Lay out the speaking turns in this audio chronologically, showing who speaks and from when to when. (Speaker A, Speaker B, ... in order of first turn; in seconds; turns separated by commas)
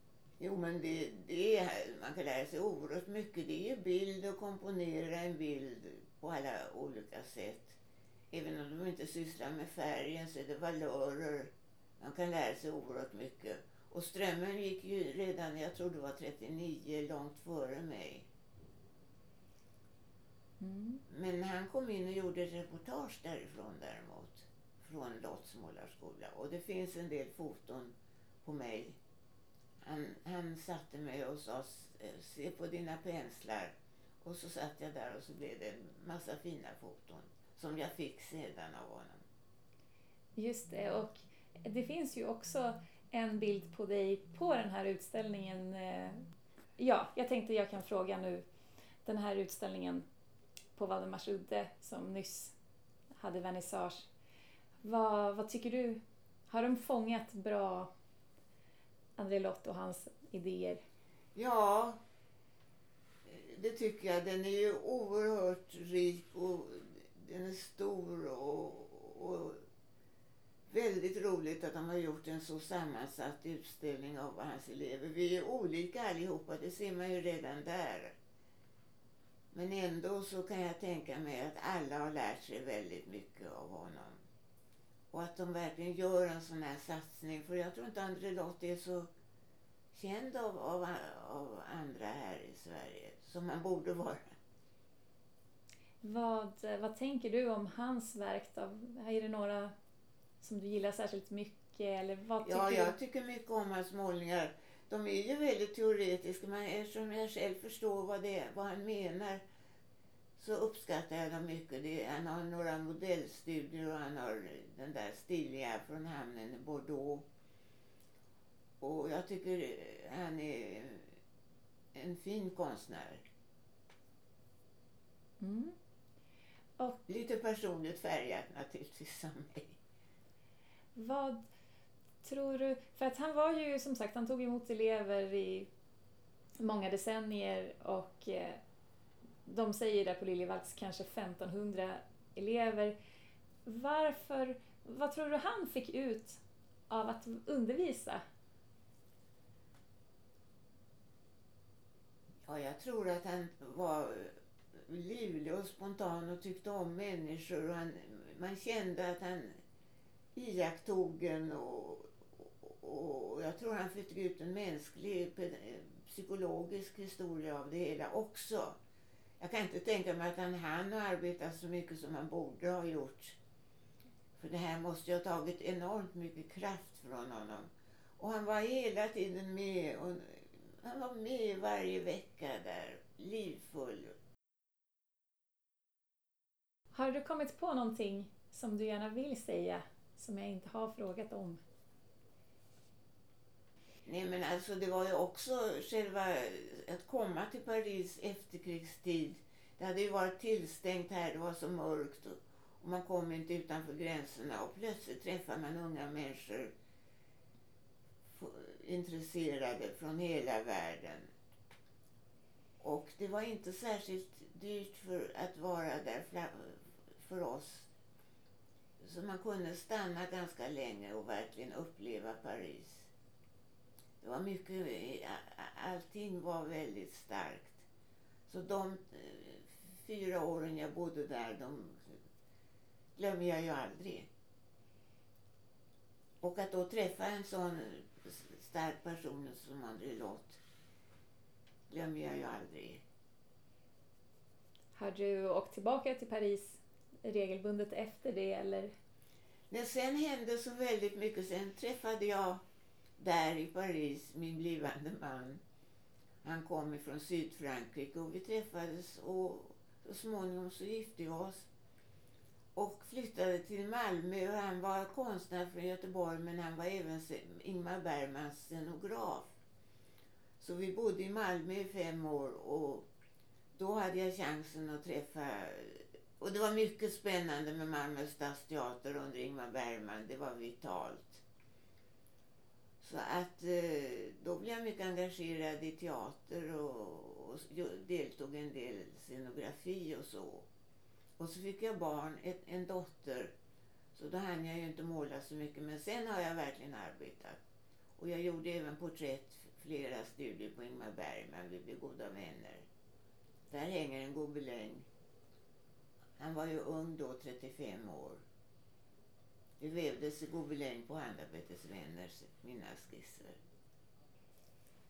Speaker A: 0.4-7.8, Speaker A: 8.3-18.3, Speaker B: 20.6-21.0, Speaker A: 21.1-29.0, Speaker A: 29.8-39.2, Speaker B: 40.4-46.2, Speaker B: 46.8-48.5, Speaker B: 49.0-50.0, Speaker B: 50.8-52.5, Speaker B: 53.2-54.1, Speaker B: 54.8-57.9, Speaker B: 59.2-60.8, Speaker A: 61.4-62.0, Speaker A: 63.3-69.6, Speaker A: 70.7-78.2, Speaker A: 79.5-84.2, Speaker A: 85.1-89.1, Speaker A: 89.9-94.4, Speaker B: 96.0-99.7, Speaker B: 100.4-102.9, Speaker A: 102.4-109.4, Speaker A: 110.4-117.2, Speaker A: 118.8-121.1, Speaker A: 122.0-123.2, Speaker B: 125.4-125.7, Speaker A: 127.1-129.8, Speaker B: 130.9-131.4, Speaker B: 132.2-135.7, Speaker B: 136.6-138.6, Speaker B: 139.4-142.9, Speaker B: 143.7-148.2, Speaker A: 152.5-154.3, Speaker A: 154.9-159.6, Speaker A: 160.3-168.8, Speaker A: 169.4-173.4, Speaker A: 174.4-184.1, Speaker B: 186.9-191.6, Speaker A: 194.1-206.7, Speaker A: 208.3-211.3, Speaker A: 212.8-217.9, Speaker A: 219.0-223.1, Speaker A: 224.2-227.9, Speaker A: 228.5-232.2, Speaker A: 233.2-234.3, Speaker A: 236.4-240.6, Speaker A: 241.9-243.0, Speaker B: 244.9-248.9, Speaker A: 249.7-252.6, Speaker A: 253.2-255.6, Speaker A: 256.4-261.7, Speaker A: 262.8-269.5, Speaker A: 270.6-273.1, Speaker A: 273.8-281.4, Speaker A: 283.0-290.7, Speaker A: 291.4-293.5, Speaker A: 294.1-297.6, Speaker A: 298.2-302.9, Speaker A: 303.7-305.1, Speaker A: 306.4-308.4, Speaker A: 309.8-313.6